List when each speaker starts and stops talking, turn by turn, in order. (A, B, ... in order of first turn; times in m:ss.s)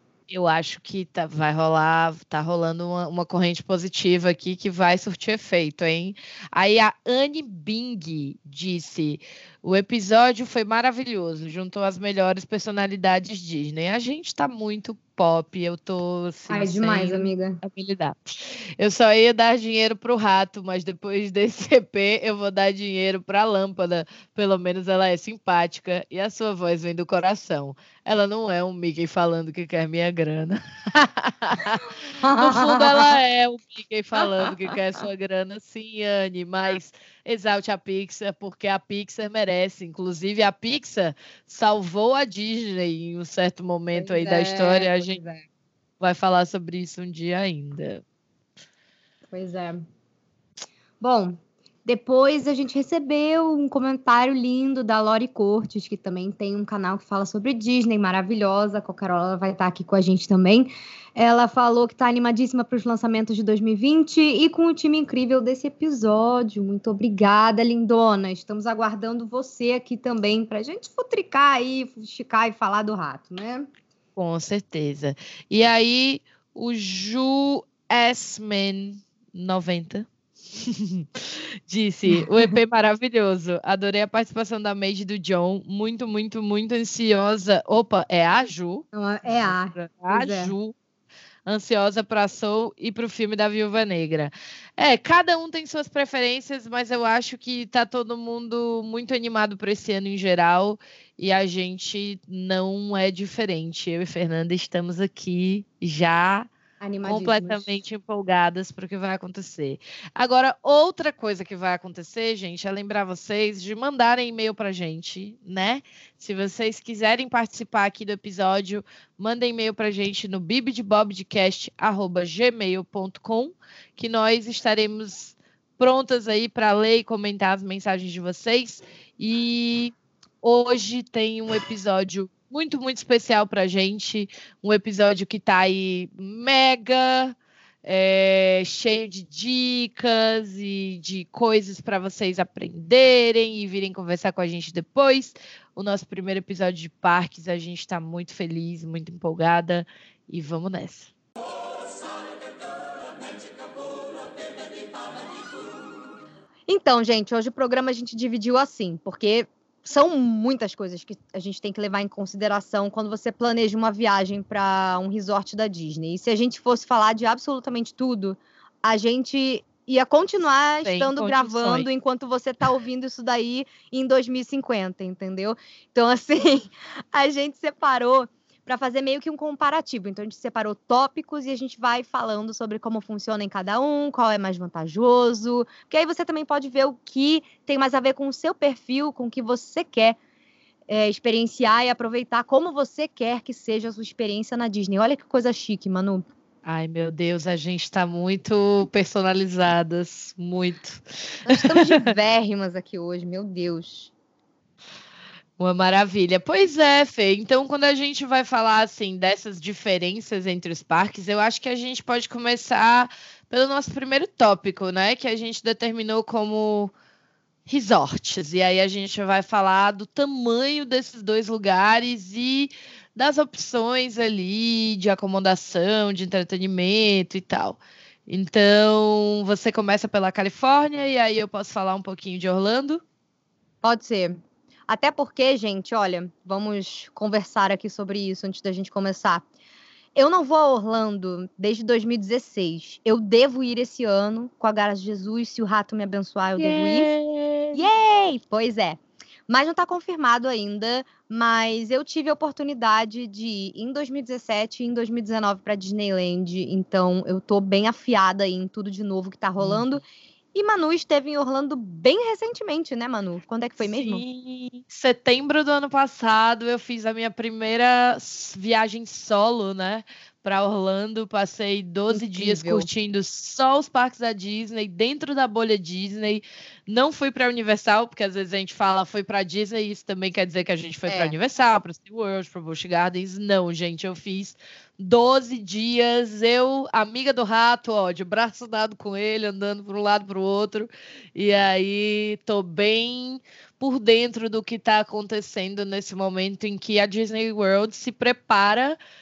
0:00.3-0:45.2 A
0:16.5-0:17.6 B
0:32.1-0:33.2 B
0:34.2-0:34.8 B
0:43.9-0:45.4 B
0:46.0-0:48.0 A
0:49.3-0:49.8 B
0:51.0-1:13.7 B
1:14.2-1:30.8 A
1:28.9-1:30.5 B
1:31.4-1:46.5 A
1:46.8-1:47.8 B
1:47.0-2:31.1 A
2:36.7-3:10.2 B
2:50.8-2:51.9 A
3:10.9-3:16.2 B
3:16.6-3:22.0 A
3:21.4-3:24.1 B
3:25.6-3:36.9 A
3:37.7-3:53.0 A
3:53.8-3:59.4 B
4:00.1-4:07.1 B
4:06.6-4:07.8 A
4:07.7-4:20.0 B
4:19.6-4:19.9 A
4:20.5-4:24.2 B
4:23.8-4:59.0 A
4:32.1-4:32.9 B
4:41.1-4:41.3 B